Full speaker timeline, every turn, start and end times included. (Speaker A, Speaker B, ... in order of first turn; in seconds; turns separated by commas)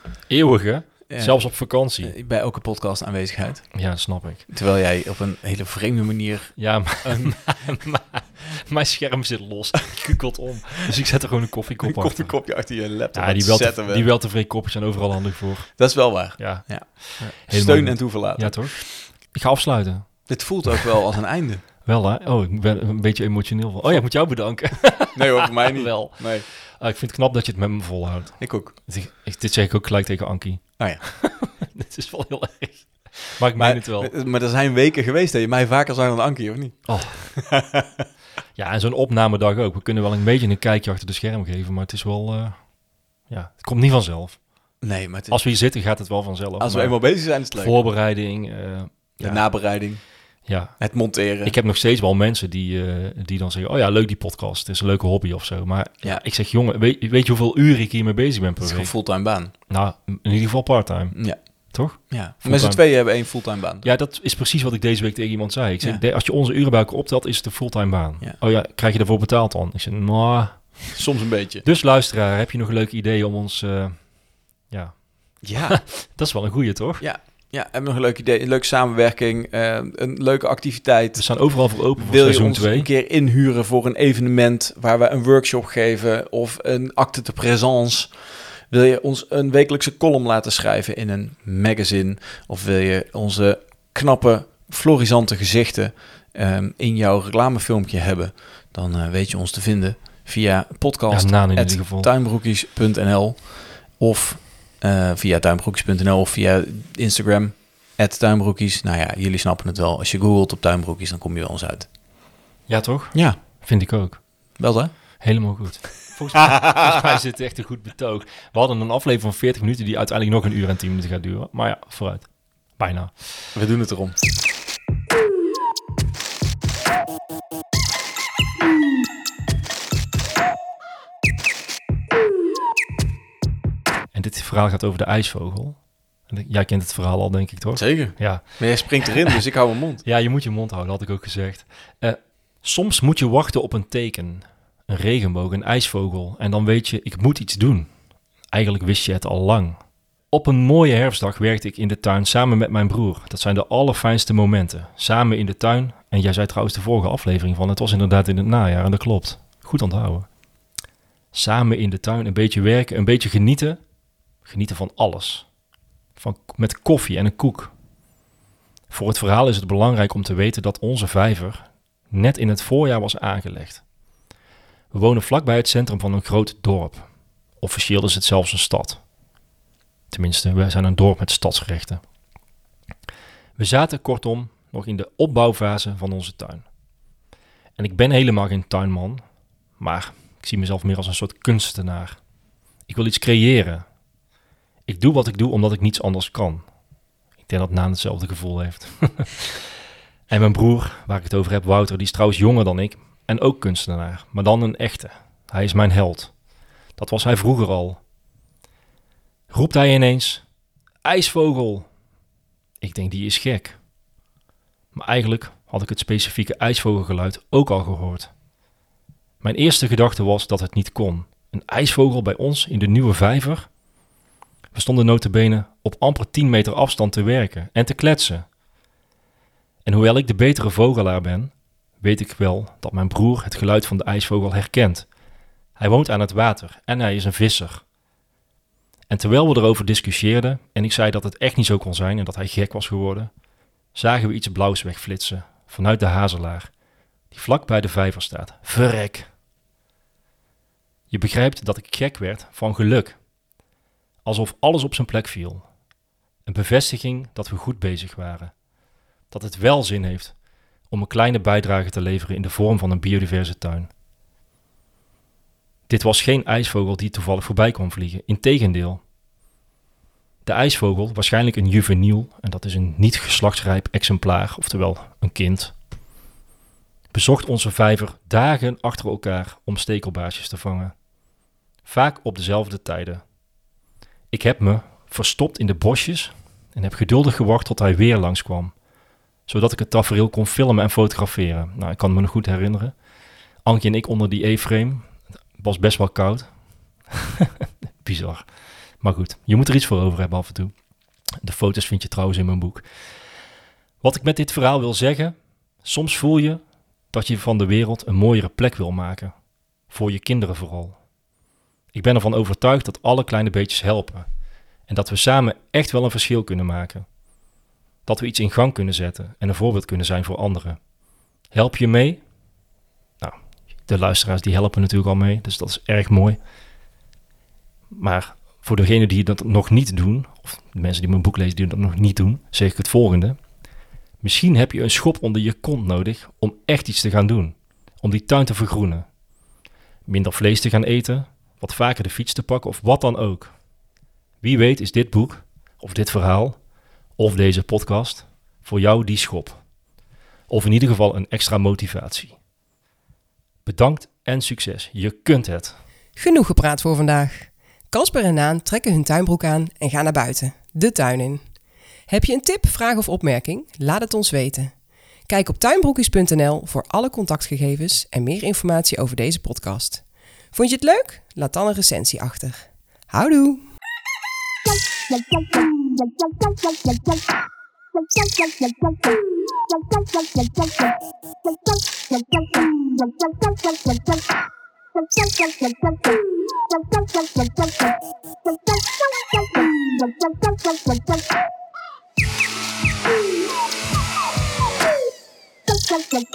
Speaker A: 0.3-2.1, Speaker B: 1.1-3.8, Speaker A: 3.7-4.5, Speaker B: 4.5-7.5, Speaker A: 6.6-12.4, Speaker B: 11.8-14.1, Speaker A: 13.1-20.9, Speaker B: 15.8-19.0, Speaker B: 20.3-21.6, Speaker A: 21.9-34.1, Speaker B: 25.1-26.5, Speaker B: 28.4-28.7, Speaker B: 33.6-38.1, Speaker A: 36.9-37.3, Speaker A: 38.6-42.6, Speaker A: 43.3-44.4, Speaker B: 44.8-45.4, Speaker A: 45.3-49.5, Speaker B: 46.6-47.8, Speaker B: 49.2-50.0, Speaker A: 50.5-50.9, Speaker B: 50.8-51.5, Speaker A: 51.4-58.9, Speaker B: 58.6-59.5, Speaker A: 59.7-62.9, Speaker B: 61.1-63.9, Speaker A: 63.8-71.0, Speaker B: 70.9-71.7, Speaker A: 71.7-74.0, Speaker A: 74.7-77.0, Speaker B: 75.4-75.8, Speaker B: 77.0-88.2, Speaker A: 81.2-82.9, Speaker B: 88.7-111.9, Speaker A: 101.1-102.1, Speaker A: 112.7-114.2, Speaker B: 113.1-113.4, Speaker B: 114.6-114.9, Speaker A: 115.2-123.2, Speaker B: 123.5-124.2, Speaker A: 134.1-139.3, Speaker B: 137.8-140.0, Speaker A: 140.1-147.9, Speaker A: 148.5-149.8, Speaker A: 150.3-160.3, Speaker A: 161.3-163.8, Speaker A: 164.4-165.5, Speaker A: 166.2-167.7, Speaker A: 168.9-173.8, Speaker A: 174.9-177.1, Speaker A: 177.6-179.0, Speaker A: 180.1-182.0, Speaker A: 183.6-186.7, Speaker A: 187.8-189.2, Speaker A: 189.8-192.2, Speaker A: 192.9-193.8, Speaker A: 194.9-196.7, Speaker A: 197.4-199.7, Speaker A: 200.3-206.3, Speaker A: 207.0-208.0, Speaker A: 209.5-210.4, Speaker A: 211.0-211.9, Speaker A: 212.8-213.8, Speaker A: 214.9-218.3, Speaker A: 219.4-223.7, Speaker A: 224.7-228.5, Speaker A: 229.8-235.1, Speaker A: 235.8-237.8, Speaker A: 239.1-243.3, Speaker A: 243.9-246.7, Speaker A: 247.3-249.3, Speaker A: 251.1-253.2, Speaker A: 254.2-255.7, Speaker A: 256.4-258.5, Speaker A: 259.3-260.4, Speaker A: 260.9-263.9, Speaker A: 265.9-269.0, Speaker A: 270.4-275.8, Speaker A: 277.1-280.9, Speaker A: 281.9-283.2, Speaker A: 284.3-288.7, Speaker A: 289.5-292.9, Speaker A: 293.6-296.5, Speaker A: 297.1-298.5, Speaker A: 299.0-300.7, Speaker A: 301.4-302.9, Speaker A: 304.0-306.6, Speaker A: 307.1-309.3, Speaker A: 309.9-311.0, Speaker A: 311.9-314.3, Speaker A: 314.9-317.1, Speaker A: 318.1-320.8, Speaker A: 321.5-322.2, Speaker A: 323.2-326.4, Speaker A: 327.9-333.4, Speaker A: 334.2-339.1, Speaker A: 340.1-343.5, Speaker A: 344.4-346.6, Speaker A: 347.2-349.6, Speaker A: 350.5-352.4, Speaker A: 353.6-355.8, Speaker C: 356.2-361.4, Speaker C: 362.1-364.7, Speaker C: 365.3-373.6